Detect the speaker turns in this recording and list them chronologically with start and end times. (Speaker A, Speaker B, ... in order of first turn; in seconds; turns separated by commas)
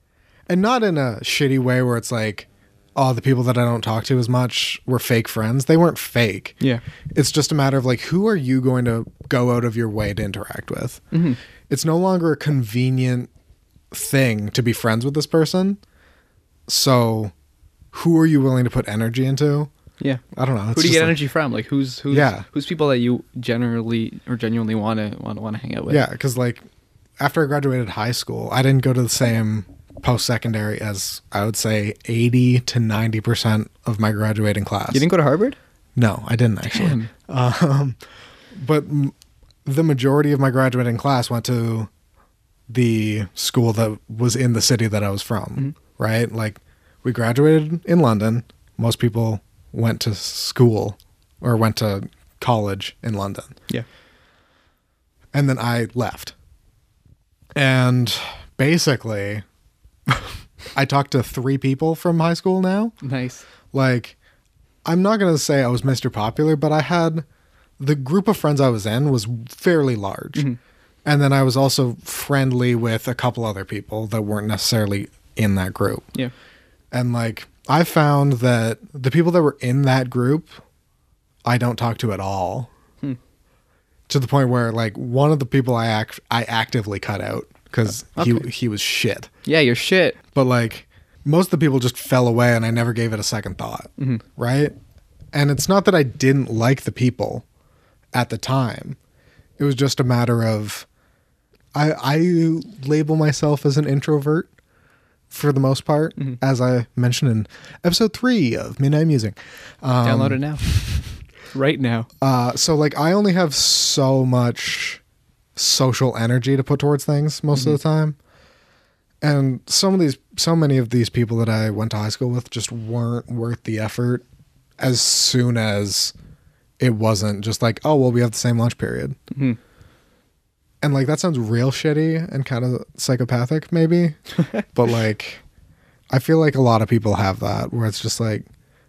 Speaker A: 0.5-6.5, Speaker A: 7.1-11.0, Speaker B: 11.1-11.4, Speaker A: 11.7-13.3, Speaker A: 13.9-15.8, Speaker A: 16.7-17.3, Speaker A: 17.9-19.7, Speaker A: 20.3-21.2, Speaker B: 20.7-26.0, Speaker A: 22.1-22.4, Speaker A: 25.9-26.6, Speaker A: 27.2-35.0, Speaker B: 34.9-35.6, Speaker A: 36.0-38.0, Speaker B: 36.6-37.1, Speaker A: 38.5-39.1, Speaker A: 39.6-41.9, Speaker A: 42.7-53.5, Speaker A: 55.3-56.3, Speaker A: 57.5-59.4, Speaker A: 60.1-62.9, Speaker B: 63.0-63.4, Speaker A: 63.7-64.2, Speaker A: 64.8-67.2, Speaker A: 67.8-70.5, Speaker A: 71.0-76.0, Speaker A: 76.9-80.6, Speaker A: 81.4-82.7, Speaker A: 84.1-89.3, Speaker B: 87.9-88.5, Speaker B: 89.5-90.2, Speaker A: 90.3-94.7, Speaker A: 95.3-97.4, Speaker A: 98.1-99.0, Speaker A: 99.6-100.8, Speaker A: 101.7-104.5, Speaker A: 105.3-111.1, Speaker B: 110.0-110.6, Speaker B: 111.5-112.1, Speaker A: 112.2-115.0, Speaker A: 115.5-118.2, Speaker A: 119.2-124.2, Speaker A: 124.8-126.1, Speaker A: 126.8-129.2, Speaker B: 129.3-129.6, Speaker A: 130.8-134.2, Speaker A: 134.7-135.4, Speaker A: 136.1-138.5